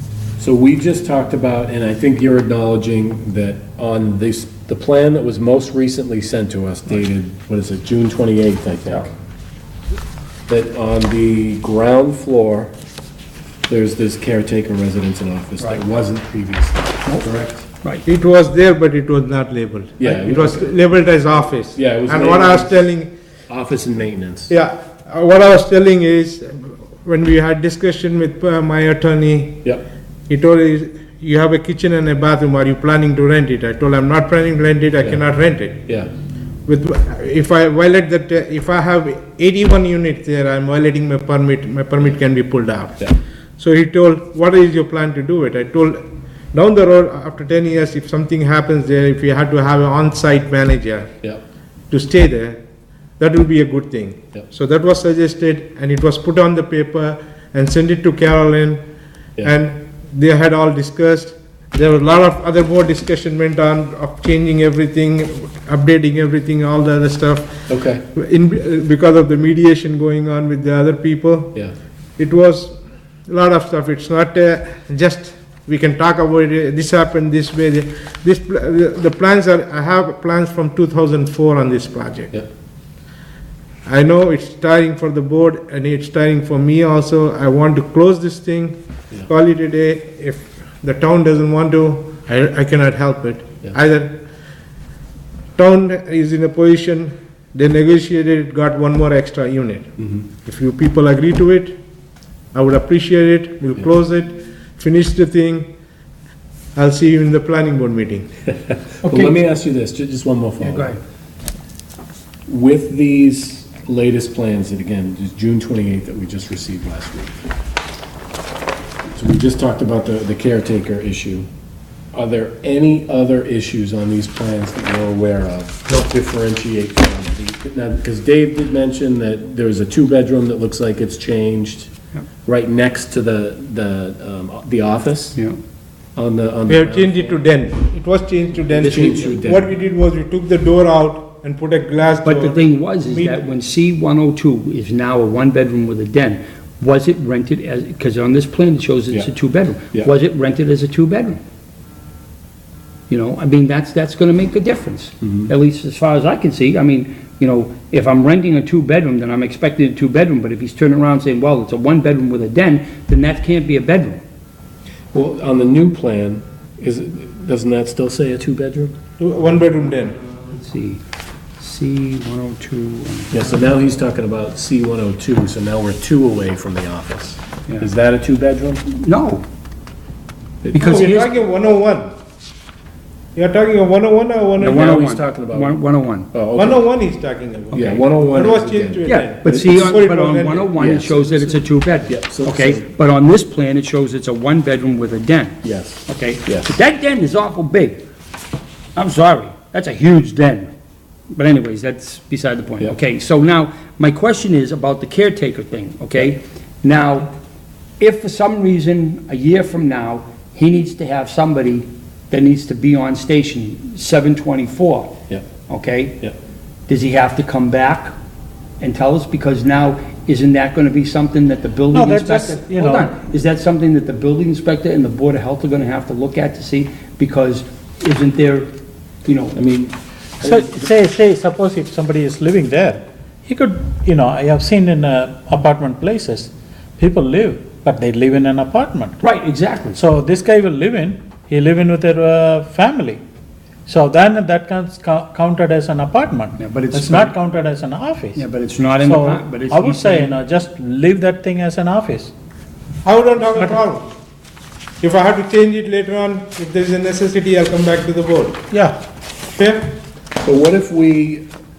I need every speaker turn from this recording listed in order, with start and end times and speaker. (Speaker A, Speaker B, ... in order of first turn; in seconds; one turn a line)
Speaker A: 0.4-9.1
Speaker A: 10.5-12.7
Speaker A: 13.7-17.7
Speaker B: 18.1-23.1
Speaker A: 20.0-20.8
Speaker A: 21.8-22.8
Speaker A: 23.5-24.5
Speaker B: 24.5-29.7
Speaker B: 30.3-35.9
Speaker B: 36.7-51.1
Speaker B: 51.9-52.6
Speaker B: 53.2-58.9
Speaker B: 59.4-71.6
Speaker A: 67.7-68.0
Speaker B: 72.2-82.3
Speaker B: 83.8-94.2
Speaker B: 95.6-101.8
Speaker B: 102.5-105.7
Speaker B: 106.8-108.3
Speaker A: 109.0-111.0
Speaker C: 109.0-109.4
Speaker C: 110.6-111.0
Speaker A: 112.5-117.4
Speaker A: 119.2-121.5
Speaker A: 122.1-131.9
Speaker A: 132.5-135.4
Speaker A: 136.2-137.4
Speaker B: 136.7-143.4
Speaker C: 138.8-139.4
Speaker A: 138.8-139.7
Speaker C: 142.2-151.4
Speaker C: 153.1-164.2
Speaker A: 155.2-155.5
Speaker A: 165.1-168.9
Speaker B: 169.2-170.2
Speaker C: 170.4-171.0
Speaker C: 171.6-173.6
Speaker A: 173.3-178.8
Speaker C: 178.9-179.5
Speaker A: 180.6-181.0
Speaker C: 180.7-181.4
Speaker B: 180.7-182.1
Speaker B: 183.3-185.0
Speaker A: 184.6-185.8
Speaker C: 184.6-186.3
Speaker A: 186.3-186.8
Speaker B: 186.6-190.7
Speaker C: 187.7-188.1
Speaker A: 187.7-189.9
Speaker C: 189.1-198.0
Speaker A: 190.8-192.9
Speaker A: 195.6-196.7
Speaker C: 198.9-200.7
Speaker C: 201.3-207.3
Speaker C: 208.0-215.2
Speaker C: 215.7-216.2
Speaker C: 216.9-218.1
Speaker C: 218.8-228.7
Speaker D: 221.9-223.1
Speaker C: 229.2-229.6
Speaker A: 229.6-230.8
Speaker D: 230.4-239.2
Speaker C: 239.2-240.0
Speaker D: 239.9-243.2
Speaker D: 243.9-248.4
Speaker C: 246.6-247.3
Speaker C: 248.3-250.3
Speaker D: 249.0-252.3
Speaker B: 253.1-254.1
Speaker B: 255.0-258.7
Speaker D: 258.7-259.0
Speaker B: 259.6-260.0
Speaker A: 260.4-261.4